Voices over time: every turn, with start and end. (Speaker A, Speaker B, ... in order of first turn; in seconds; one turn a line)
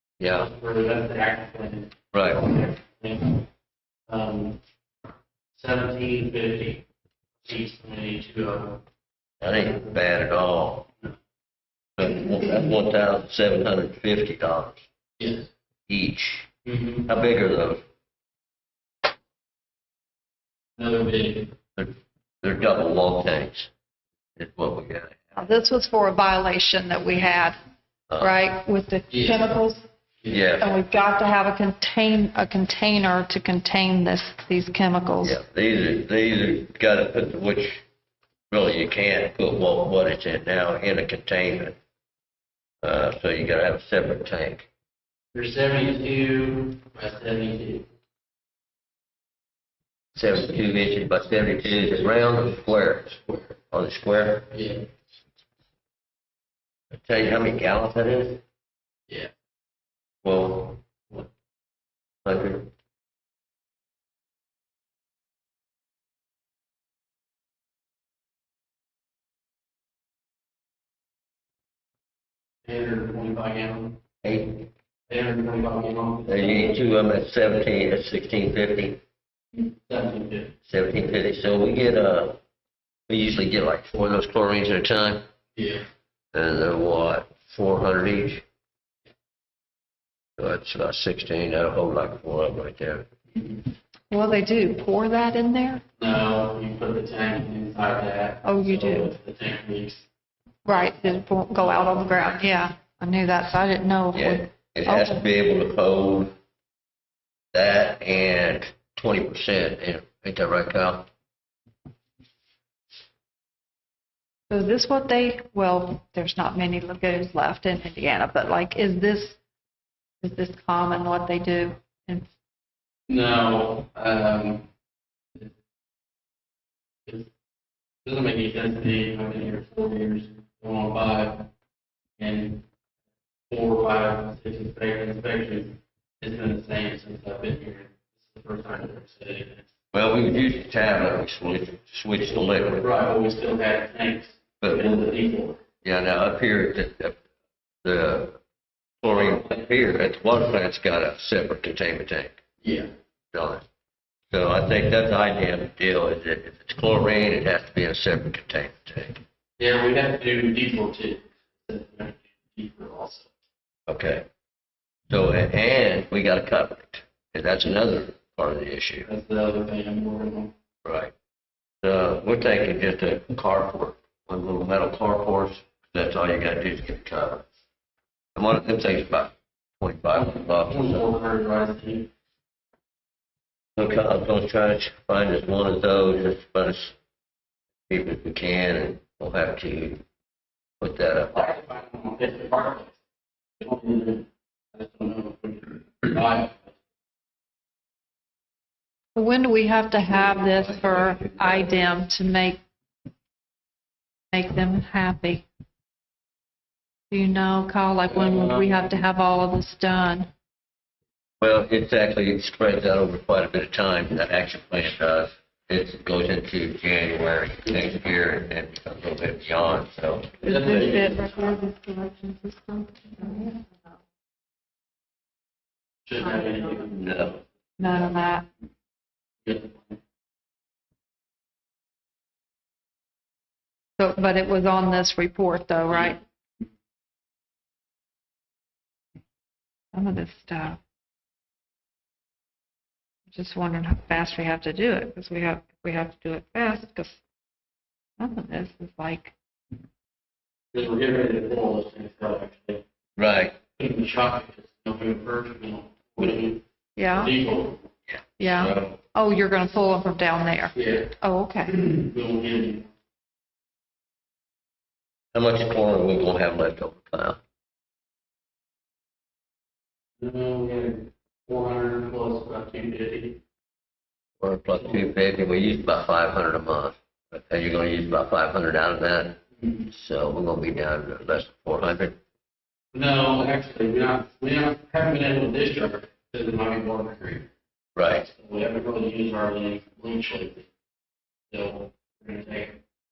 Speaker A: 0.2-0.5
Speaker B: 0.3-3.4
Speaker A: 2.1-2.4
Speaker B: 4.1-4.6
Speaker B: 5.5-6.8
Speaker B: 7.4-8.8
Speaker A: 9.4-10.9
Speaker A: 12.0-14.8
Speaker B: 15.2-15.5
Speaker A: 15.9-16.5
Speaker B: 16.6-17.1
Speaker A: 17.0-17.8
Speaker B: 20.8-21.5
Speaker A: 21.8-23.7
Speaker A: 24.4-25.4
Speaker C: 25.4-27.6
Speaker C: 28.2-29.8
Speaker B: 29.1-29.5
Speaker B: 30.2-30.6
Speaker A: 30.3-30.7
Speaker C: 30.6-35.4
Speaker A: 35.2-37.8
Speaker A: 38.5-41.8
Speaker A: 42.8-44.7
Speaker B: 45.3-47.9
Speaker A: 50.1-53.1
Speaker B: 52.2-53.5
Speaker A: 53.7-54.5
Speaker B: 54.5-54.9
Speaker A: 56.9-58.4
Speaker A: 60.2-60.8
Speaker A: 62.2-62.7
Speaker B: 72.6-74.0
Speaker A: 74.2-74.7
Speaker B: 75.1-76.8
Speaker A: 76.3-79.0
Speaker B: 79.5-80.6
Speaker A: 80.7-82.4
Speaker A: 83.1-85.2
Speaker B: 85.5-85.8
Speaker A: 86.3-88.4
Speaker A: 90.4-93.1
Speaker B: 93.3-93.7
Speaker C: 94.1-95.8
Speaker B: 96.0-100.0
Speaker C: 98.4-99.1
Speaker C: 100.6-105.2
Speaker B: 101.6-102.2
Speaker A: 104.1-106.3
Speaker A: 107.5-111.1
Speaker C: 114.5-119.4
Speaker C: 120.2-122.3
Speaker B: 123.1-124.7
Speaker B: 127.0-127.3
Speaker B: 128.0-131.5
Speaker B: 132.2-132.7
Speaker B: 133.5-139.7
Speaker A: 139.9-142.8
Speaker B: 142.2-145.6
Speaker A: 144.6-145.0
Speaker A: 145.8-147.2
Speaker A: 147.8-148.4
Speaker A: 149.0-152.4
Speaker B: 149.1-149.7
Speaker B: 152.6-152.9
Speaker A: 153.3-153.6
Speaker A: 154.3-159.2
Speaker B: 159.6-163.3
Speaker A: 163.9-164.2
Speaker A: 165.1-169.1
Speaker B: 169.0-170.5
Speaker A: 170.8-171.1
Speaker A: 171.8-177.4
Speaker A: 178.3-181.1
Speaker B: 180.1-182.1
Speaker A: 183.8-186.9
Speaker A: 187.9-190.0
Speaker A: 190.8-191.4
Speaker B: 191.3-193.0
Speaker B: 193.6-196.8
Speaker C: 199.2-202.6
Speaker A: 200.1-201.7
Speaker C: 204.3-205.4
Speaker C: 207.1-210.3
Speaker B: 208.1-209.0
Speaker A: 211.4-220.3
Speaker B: 220.4-221.6
Speaker C: 220.4-223.9
Speaker B: 226.0-228.2
Speaker C: 226.2-226.9
Speaker A: 226.9-227.4
Speaker C: 227.8-228.4
Speaker B: 229.4-230.0
Speaker C: 234.0-236.2
Speaker B: 235.9-236.7
Speaker C: 239.9-240.8
Speaker C: 243.3-247.2
Speaker C: 248.2-249.3
Speaker B: 250.7-252.8
Speaker A: 253.2-253.6
Speaker B: 253.8-257.9
Speaker C: 256.9-257.3
Speaker C: 258.4-261.8
Speaker A: 258.4-258.9
Speaker B: 260.7-261.1
Speaker B: 261.6-262.9
Speaker A: 265.3-267.4
Speaker B: 270.2-273.4
Speaker A: 274.4-279.4
Speaker B: 274.8-275.1
Speaker B: 279.6-279.9
Speaker A: 279.9-282.2
Speaker B: 282.9-287.5
Speaker A: 287.9-288.3
Speaker B: 288.2-290.7
Speaker B: 291.5-292.8